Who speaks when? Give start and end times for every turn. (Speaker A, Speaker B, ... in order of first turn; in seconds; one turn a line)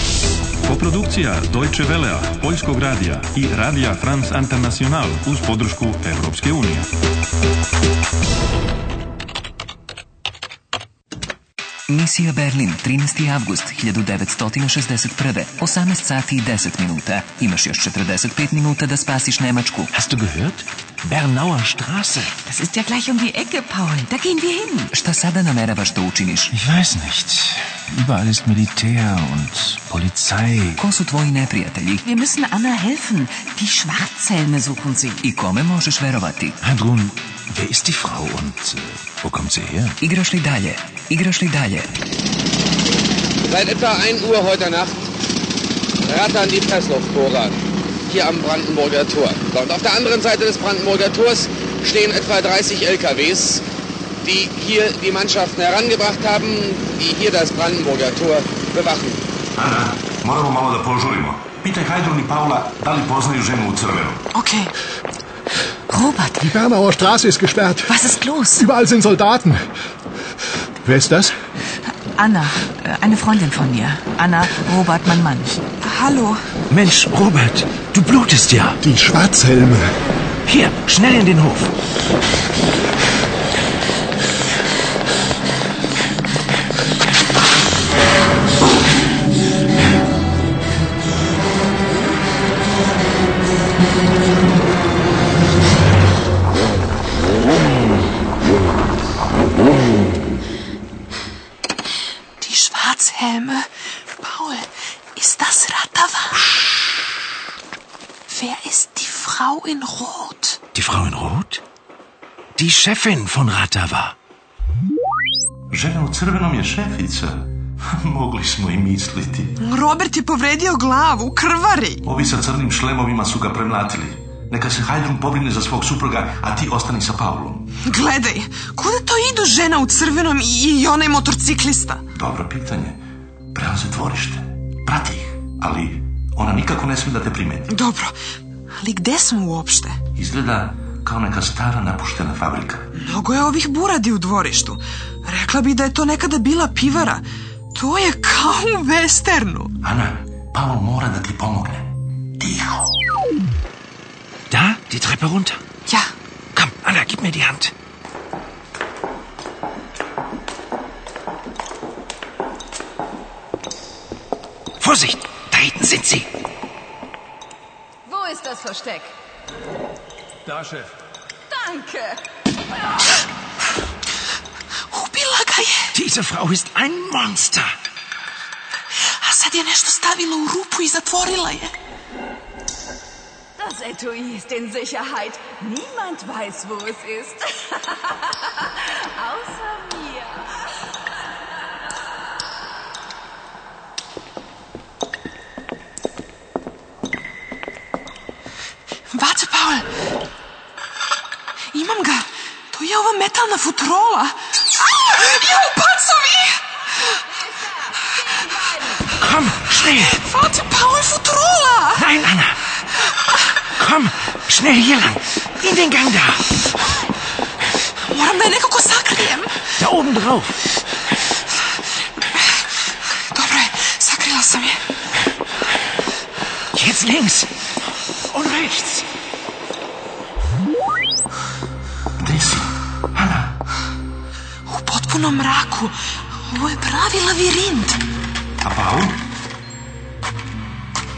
Speaker A: 0.6-6.9
Speaker B: 11.9-19.9
Speaker C: 19.9-22.4
Speaker D: 22.4-24.9
Speaker B: 24.9-26.5
Speaker C: 26.5-30.8
Speaker B: 30.8-32.0
Speaker D: 32.0-35.2
Speaker B: 35.2-36.6
Speaker C: 36.6-40.0
Speaker B: 40.0-41.9
Speaker E: 43.5-45.1
Speaker E: 46.0-47.6
Speaker E: 48.1-53.6
Speaker E: 54.2-59.2
Speaker F: 59.6-64.2
Speaker G: 64.3-64.7
Speaker D: 65.9-66.5
Speaker H: 66.4-69.6
Speaker D: 67.9-68.7
Speaker H: 70.9-71.3
Speaker D: 72.2-75.5
Speaker G: 75.8-76.4
Speaker C: 76.7-78.8
Speaker H: 78.8-79.9
Speaker C: 80.5-81.7
Speaker G: 102.4-103.7
Speaker G: 104.2-106.3
Speaker G: 108.3-110.6
Speaker C: 110.8-111.6
Speaker C: 112.6-114.1
Speaker F: 115.7-119.6
Speaker G: 119.6-122.0
Speaker F: 122.0-127.7
Speaker G: 127.8-132.0
Speaker F: 132.2-133.0
Speaker F: 133.5-137.7
Speaker G: 137.7-138.1
Speaker G: 138.8-140.0
Speaker F: 140.2-142.9
Speaker G: 142.9-149.7
Speaker F: 149.8-152.9
Speaker C: 154.5-155.6
Speaker C: 156.6-157.7
Speaker C: 164.8-166.3
Speaker I: 168.1-169.1
Speaker A: 170.5-170.8
Speaker I: 171.5-172.2
Speaker G: 174.9-175.9
Speaker C: 175.9-177.7
Speaker G: 179.2-181.7
Speaker I: 183.6-190.5
Speaker G: 199.1-199.9
Speaker G: 201.7-206.6
Speaker I: 208.7-209.0
Speaker C: 209.2-210.1
Speaker G: 209.8-212.1
Speaker C: 212.0-212.6
Speaker C: 213.8-216.5
Speaker G: 218.1-219.5
Speaker C: 219.8-220.6
Speaker G: 223.3-224.8
Speaker C: 226.7-227.5
Speaker C: 228.3-229.1
Speaker F: 232.2-233.6
Speaker G: 234.7-235.9
Speaker G: 236.5-238.0
Speaker F: 238.6-239.2